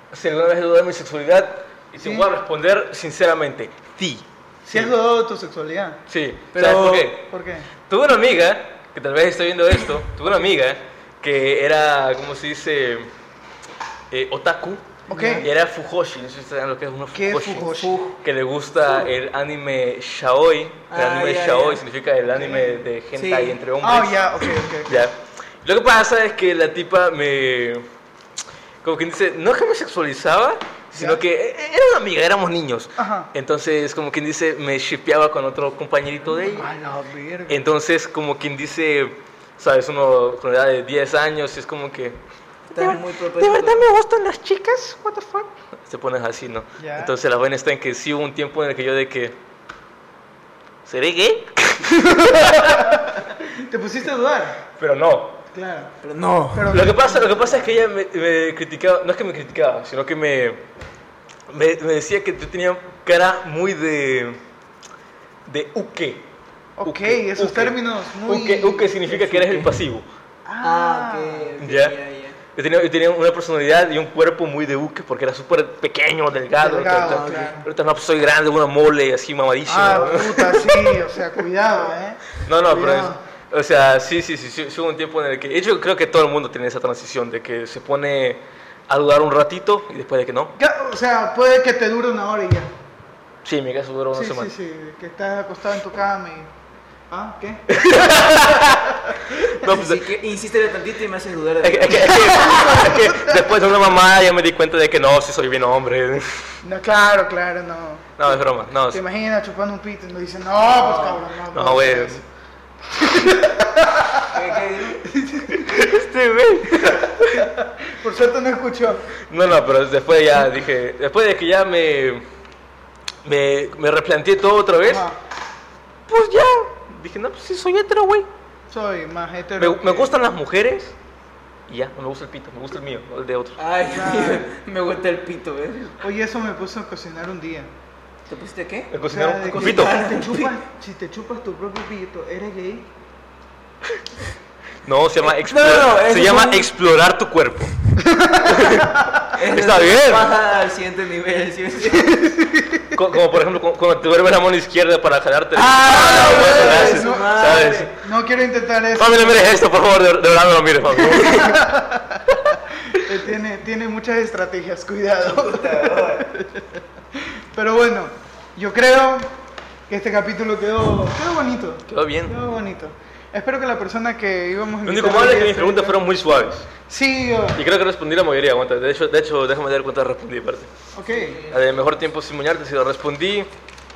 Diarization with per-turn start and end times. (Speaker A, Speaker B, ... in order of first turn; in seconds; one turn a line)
Speaker A: 0.1-4.9
Speaker B: 2.0-2.3
Speaker B: 4.7-6.0
Speaker A: 6.1-7.2
Speaker C: 6.5-7.1
Speaker B: 7.3-7.7
Speaker A: 7.9-13.1
Speaker A: 14.1-27.9
Speaker B: 15.1-15.4
Speaker C: 15.1-15.5
Speaker B: 17.1-18.0
Speaker C: 17.6-18.1
Speaker C: 20.9-21.8
Speaker B: 22.4-22.8
Speaker C: 23.1-23.6
Speaker B: 23.8-25.0
Speaker A: 28.8-36.7
Speaker B: 30.9-31.2
Speaker B: 33.0-33.3
Speaker B: 36.4-37.6
Speaker A: 37.5-42.2
Speaker C: 42.7-43.8
Speaker A: 42.7-49.4
Speaker B: 46.8-47.1
Speaker A: 50.9-52.9
Speaker B: 52.0-54.6
Speaker A: 54.8-55.4
Speaker B: 55.5-55.9
Speaker C: 56.0-56.8
Speaker B: 56.5-57.7
Speaker A: 56.7-60.6
Speaker A: 61.5-64.4
Speaker A: 65.5-66.3
Speaker B: 66.8-69.0
Speaker A: 66.8-70.0
Speaker C: 69.2-69.7
Speaker B: 70.5-71.5
Speaker C: 70.6-72.4
Speaker A: 71.6-72.0
Speaker A: 72.5-81.0
Speaker B: 76.6-77.7
Speaker C: 77.0-77.6
Speaker B: 79.7-83.2
Speaker A: 82.4-90.5
Speaker B: 90.6-92.7
Speaker A: 93.4-94.5
Speaker B: 94.1-96.5
Speaker B: 97.1-98.8
Speaker A: 97.7-100.0
Speaker C: 99.5-102.4
Speaker A: 101.6-106.5
Speaker B: 102.1-103.5
Speaker B: 106.6-108.1
Speaker A: 108.2-109.0
Speaker B: 108.8-112.2
Speaker C: 110.7-111.2
Speaker A: 111.5-112.2
Speaker B: 113.0-114.4
Speaker C: 114.3-115.1
Speaker B: 115.0-115.8
Speaker A: 115.5-117.5
Speaker B: 116.7-119.1
Speaker A: 119.2-122.2
Speaker A: 123.2-125.1
Speaker B: 124.8-125.2
Speaker A: 126.1-128.3
Speaker B: 128.7-130.1
Speaker A: 129.6-130.9
Speaker A: 131.7-133.6
Speaker C: 133.6-136.0
Speaker B: 133.9-134.5
Speaker B: 136.0-137.7
Speaker C: 138.3-140.5
Speaker A: 138.9-140.0
Speaker B: 139.0-142.9
Speaker A: 144.8-147.7
Speaker C: 145.2-146.7
Speaker B: 148.0-149.3
Speaker A: 148.4-150.4
Speaker C: 149.3-152.3
Speaker B: 151.9-152.9
Speaker A: 152.9-157.9
Speaker C: 155.6-157.9
Speaker B: 155.8-159.6
Speaker A: 158.9-161.7
Speaker B: 161.0-166.6
Speaker C: 165.2-166.3
Speaker B: 167.2-169.3
Speaker B: 169.9-176.0
Speaker A: 171.9-172.3
Speaker A: 174.8-176.7
Speaker B: 176.9-177.6
Speaker A: 177.6-180.7
Speaker B: 180.9-181.4
Speaker C: 181.1-182.0
Speaker A: 181.5-183.5